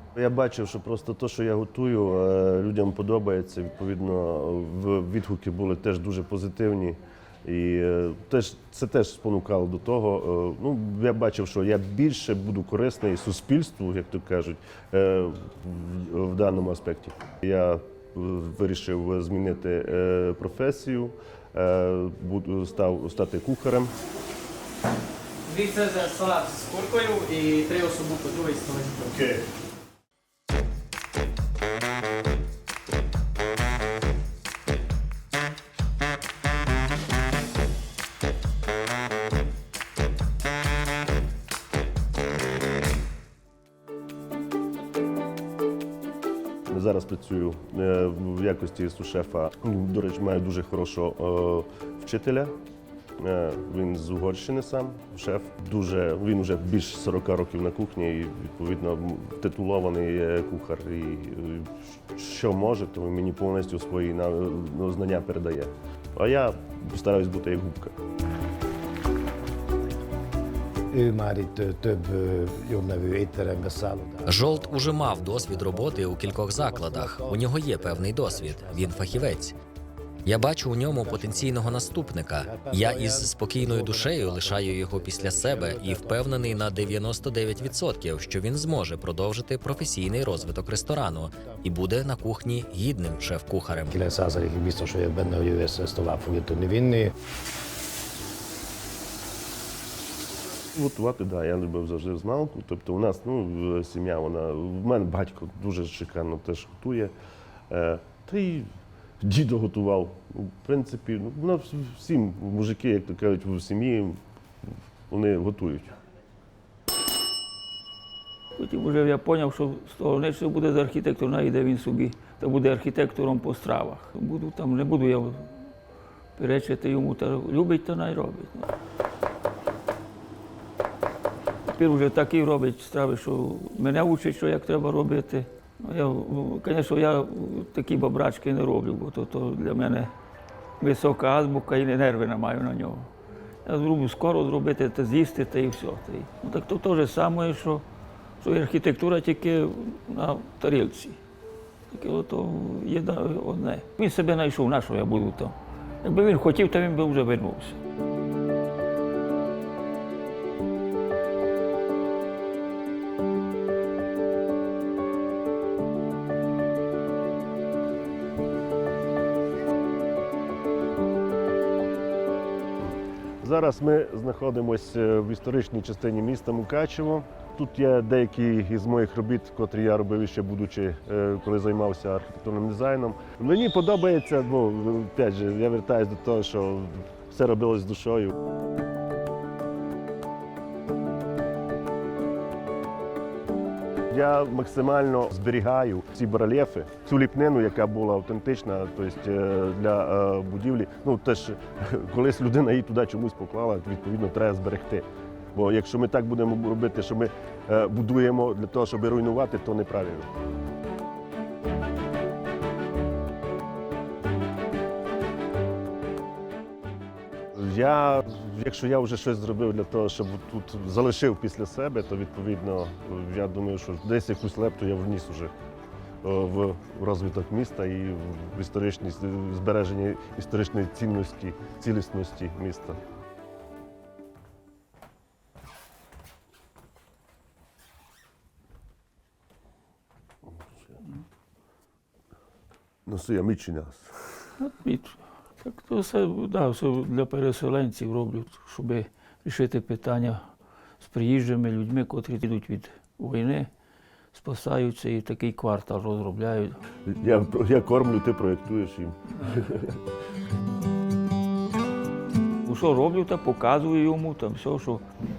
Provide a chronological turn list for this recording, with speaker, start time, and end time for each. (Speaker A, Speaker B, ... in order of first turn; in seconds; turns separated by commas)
Speaker A: 0.1-23.9, Speaker B: 25.5-29.0, Speaker A: 29.0-29.4, Speaker A: 46.7-52.5, Speaker A: 53.2-68.0, Speaker C: 70.9-79.4, Speaker D: 74.3-79.5, Speaker D: 80.3-94.0, Speaker C: 80.4-88.4, Speaker C: 90.1-91.8, Speaker C: 93.9-97.1, Speaker A: 100.7-107.1, Speaker A: 107.7-108.7, Speaker A: 109.2-114.2, Speaker A: 115.1-115.9, Speaker E: 118.6-125.6, Speaker E: 126.4-128.7, Speaker E: 131.7-140.1, Speaker E: 140.8-143.1, Speaker E: 143.7-147.8, Speaker E: 148.4-151.2, Speaker E: 151.9-157.8, Speaker A: 173.4-188.4, Speaker A: 194.1-210.3, Speaker A: 217.5-225.5, Speaker A: 226.2-233.0, Speaker A: 243.1-244.5, Speaker E: 244.6-250.4, Speaker E: 251.0-253.7, Speaker E: 254.3-256.8, Speaker A: 257.1-260.0, Speaker E: 262.6-265.0